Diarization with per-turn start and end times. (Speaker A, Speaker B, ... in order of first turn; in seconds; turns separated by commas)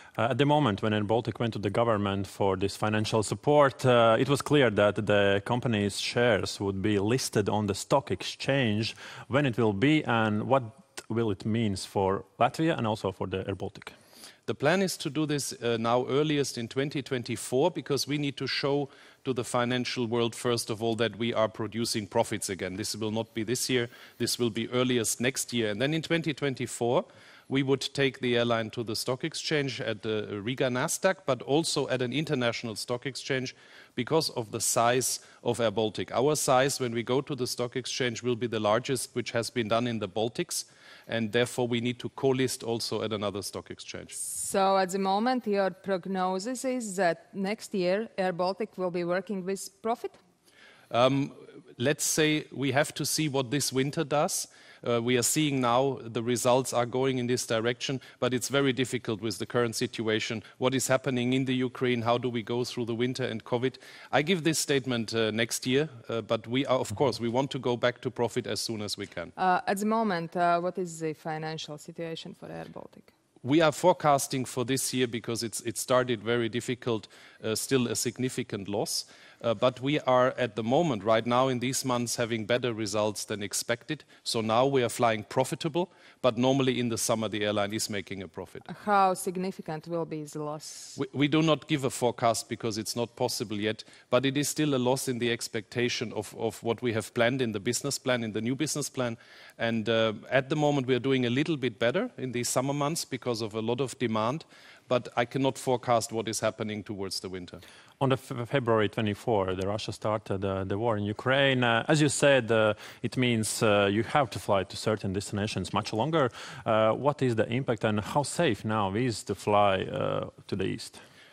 Speaker A: 0.2-13.9, Speaker B: 14.5-44.2, Speaker C: 44.1-50.2, Speaker B: 50.9-69.3, Speaker C: 69.4-73.1, Speaker B: 73.4-88.7, Speaker C: 88.7-91.0, Speaker B: 91.0-107.6, Speaker A: 108.0-121.0